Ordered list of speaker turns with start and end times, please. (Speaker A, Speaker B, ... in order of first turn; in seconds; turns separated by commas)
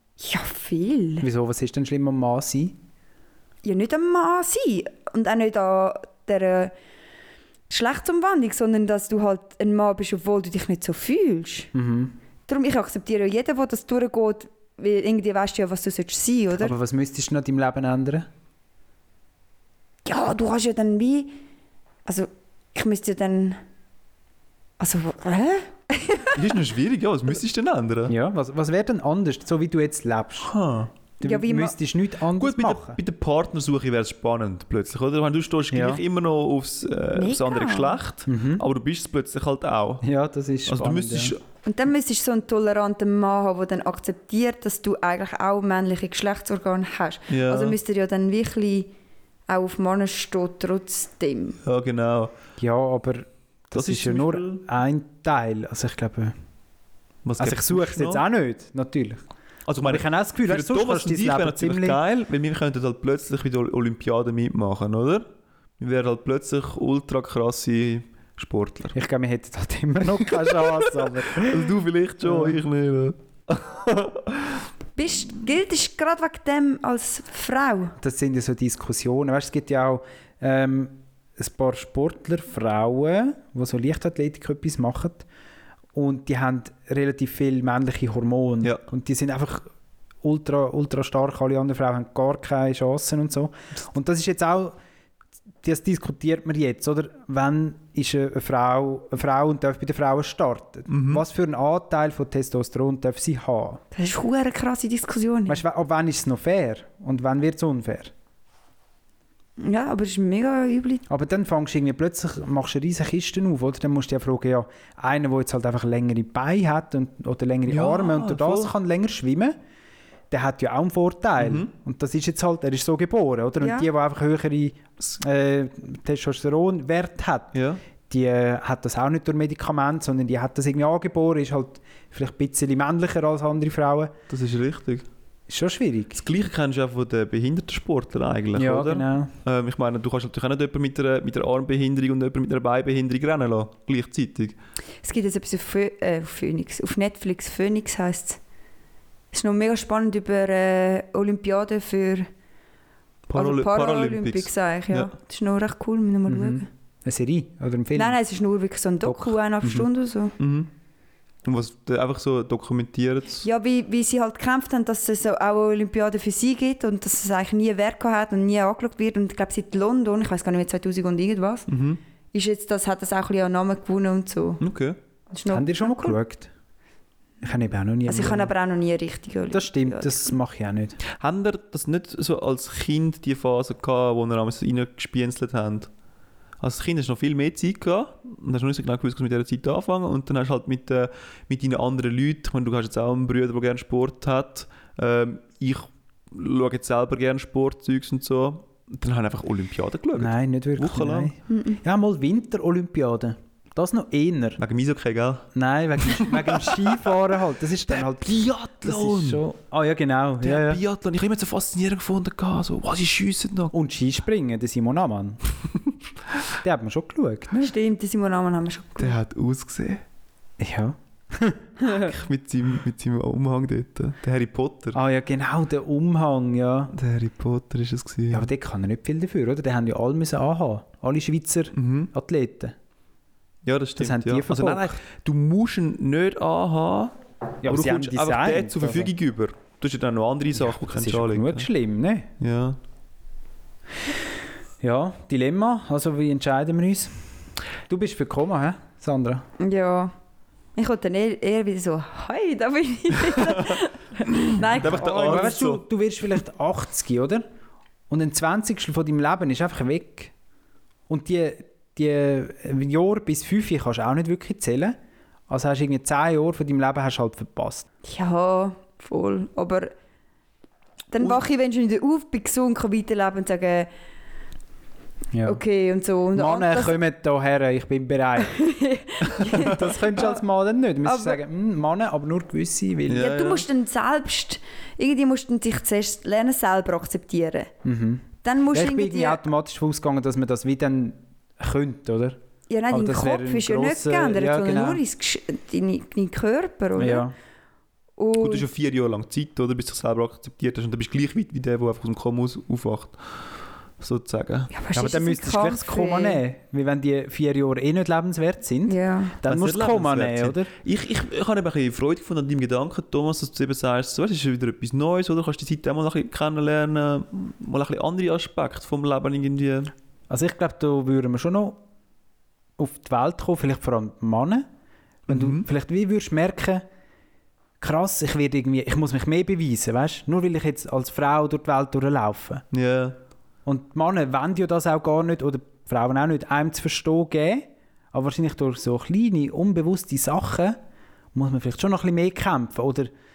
Speaker A: 0.2-1.3, Speaker B: 1.2-2.8, Speaker A: 3.6-6.7, Speaker A: 7.7-11.7, Speaker B: 11.7-12.1, Speaker A: 12.5-16.7, Speaker B: 16.5-18.3, Speaker A: 20.0-21.4, Speaker A: 22.1-23.6, Speaker A: 24.8-26.4, Speaker C: 26.3-28.1, Speaker B: 28.1-30.5, Speaker C: 30.4-30.9, Speaker B: 31.2-33.0, Speaker A: 31.2-31.7, Speaker C: 32.3-40.0, Speaker B: 35.7-36.0, Speaker A: 37.1-38.0, Speaker B: 38.3-38.6, Speaker B: 40.0-41.3, Speaker C: 40.7-41.4, Speaker A: 41.6-48.9, Speaker C: 47.3-47.8, Speaker A: 49.5-51.6, Speaker C: 51.6-52.3, Speaker B: 52.6-56.3, Speaker C: 53.7-54.6, Speaker C: 57.2-58.2, Speaker B: 57.4-59.2, Speaker C: 59.7-65.2, Speaker B: 59.8-62.0, Speaker C: 65.8-69.0, Speaker B: 68.9-72.6, Speaker C: 70.4-74.6, Speaker A: 75.0-77.9, Speaker B: 78.0-85.2, Speaker B: 85.9-89.7, Speaker B: 90.2-94.8, Speaker B: 95.6-103.8, Speaker C: 100.9-101.2, Speaker A: 103.9-105.6, Speaker B: 105.5-108.1, Speaker A: 109.6-111.0, Speaker B: 111.1-119.5, Speaker C: 117.7-118.7, Speaker B: 120.3-127.6, Speaker C: 121.4-121.7, Speaker A: 123.6-123.9, Speaker C: 127.5-127.8, Speaker B: 128.1-134.1, Speaker C: 134.3-135.0, Speaker B: 135.5-136.2, Speaker C: 136.1-144.5, Speaker B: 138.6-139.3, Speaker A: 145.0-148.4, Speaker A: 149.3-152.3, Speaker C: 153.3-155.1, Speaker A: 153.3-156.7, Speaker B: 156.3-158.2, Speaker A: 157.9-160.3, Speaker B: 159.1-159.9, Speaker C: 160.4-160.7, Speaker C: 161.4-163.4, Speaker A: 163.4-171.7, Speaker C: 171.7-172.0, Speaker A: 172.3-174.6, Speaker C: 174.6-175.0, Speaker A: 175.3-176.2, Speaker B: 175.5-176.5, Speaker B: 177.4-178.5, Speaker A: 178.1-180.3, Speaker B: 179.5-181.0, Speaker C: 181.1-185.9, Speaker C: 186.6-201.3, Speaker B: 200.1-204.6, Speaker A: 201.5-201.8, Speaker C: 204.6-207.1, Speaker B: 205.5-210.8, Speaker C: 207.9-209.4, Speaker C: 210.4-213.7, Speaker B: 213.7-215.4, Speaker B: 216.6-217.5, Speaker A: 217.5-219.2, Speaker C: 219.0-220.0, Speaker B: 220.6-221.7, Speaker A: 221.8-222.1, Speaker C: 221.9-225.0, Speaker B: 224.9-226.9, Speaker C: 226.9-228.5, Speaker B: 228.3-232.8, Speaker C: 231.8-232.1, Speaker C: 233.6-241.7, Speaker B: 234.0-235.0, Speaker B: 237.6-239.1, Speaker B: 240.6-242.3, Speaker C: 242.4-242.8, Speaker B: 244.8-247.2, Speaker B: 247.9-249.4, Speaker A: 249.6-250.1, Speaker A: 250.8-255.5, Speaker C: 254.3-255.8, Speaker B: 255.0-257.4, Speaker B: 258.1-260.3, Speaker B: 261.1-264.9, Speaker B: 265.5-267.9, Speaker A: 268.0-269.9, Speaker A: 271.1-273.9, Speaker B: 275.3-275.6, Speaker A: 275.4-277.0, Speaker B: 276.3-278.6, Speaker A: 278.4-280.4, Speaker B: 279.4-283.3, Speaker C: 279.4-280.0, Speaker A: 281.0-281.4, Speaker C: 283.1-283.7, Speaker A: 283.1-287.7, Speaker B: 287.8-292.4, Speaker A: 288.4-289.4, Speaker A: 292.7-297.3, Speaker B: 292.9-295.0, Speaker B: 296.9-297.3, Speaker A: 298.2-298.6, Speaker C: 298.4-303.2, Speaker C: 304.0-304.7, Speaker A: 304.7-306.4, Speaker B: 304.9-310.7, Speaker A: 308.9-309.4, Speaker C: 309.4-319.9, Speaker B: 320.3-321.8, Speaker B: 322.8-324.6, Speaker B: 325.3-326.9, Speaker C: 325.3-325.6, Speaker B: 327.8-332.6, Speaker C: 332.7-333.2, Speaker B: 333.6-340.8, Speaker B: 341.3-343.1